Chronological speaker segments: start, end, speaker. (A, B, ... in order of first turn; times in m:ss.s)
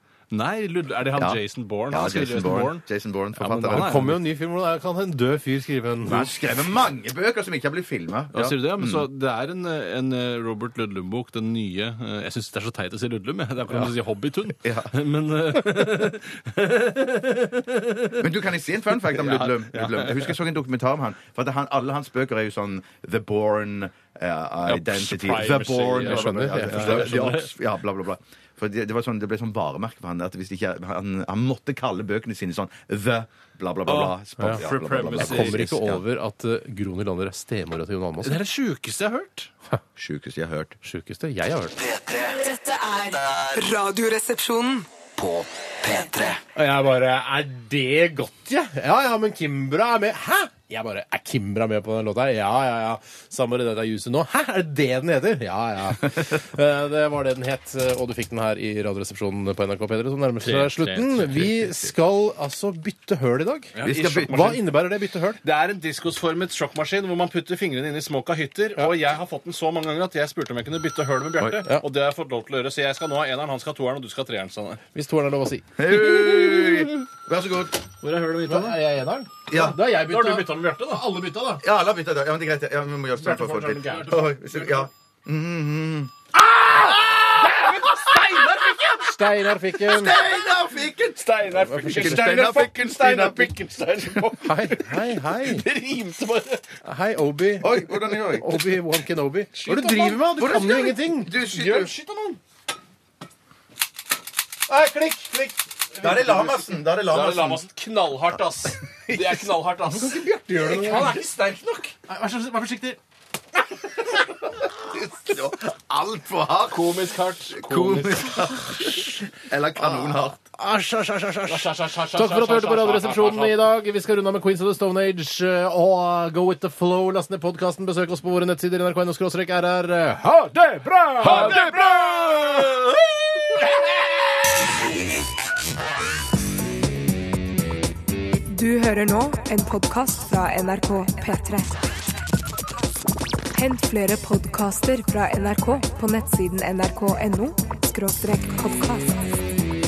0:00.3-0:02.8 A
0:01.2-0:04.1 B
0:03.4-0:04.2 A
0:03.4-0:06.3 C
0:06.0-0:09.1 B
0:08.3-0:18.3 A
0:14.6-0:14.9 B
0:18.2-0:36.0 B
0:19.0-0:20.4 A
0:24.6-0:27.5 A
0:26.0-0:27.1 C
0:33.8-0:35.7 A
0:35.2-0:38.4 C
0:38.2-0:39.5 A
0:40.0-0:40.8 B
0:40.8-0:41.7 C
0:41.8-0:42.4 D
0:42.3-0:44.9 E
0:43.2-0:43.5 D
0:45.1-0:46.4 D
0:46.5-1:05.4 C
1:00.4-1:01.9 A
1:03.7-1:04.6 A
1:03.8-1:04.4 B
1:05.4-1:14.8 A
1:14.9-1:15.8 C
1:15.8-1:17.8 B
1:16.0-1:16.9 A
1:18.0-1:18.8 A
1:18.4-1:21.6 C
1:19.5-1:19.8 B
1:19.8-1:21.6 A
1:21.6-1:26.1 B
1:23.2-1:24.8 C
1:23.4-1:24.0 A
1:26.6-1:27.7 C
1:26.6-1:36.8 A
1:29.0-1:30.2 C
1:29.8-1:31.2 B
1:31.6-1:32.2 C
1:31.8-1:34.3 B
1:34.4-1:35.6 C
1:36.8-1:41.3 C
1:37.6-1:38.6 B
1:39.5-1:40.4 A
1:40.4-1:41.9 B
1:41.3-1:42.4 A
1:44.7-1:46.4 C
1:46.0-1:47.7 B
1:47.1-1:51.9 A
1:49.1-1:49.4 B
1:50.4-1:51.2 C
1:50.5-1:51.2 B
1:52.1-1:53.0 C
1:54.6-1:56.9 B
1:56.6-1:58.6 A
1:57.5-2:00.4 B
2:00.4-2:12.2 C
2:01.5-2:03.6 A
2:11.2-2:13.6 A
2:18.5-2:21.7 E
2:23.5-2:29.1 E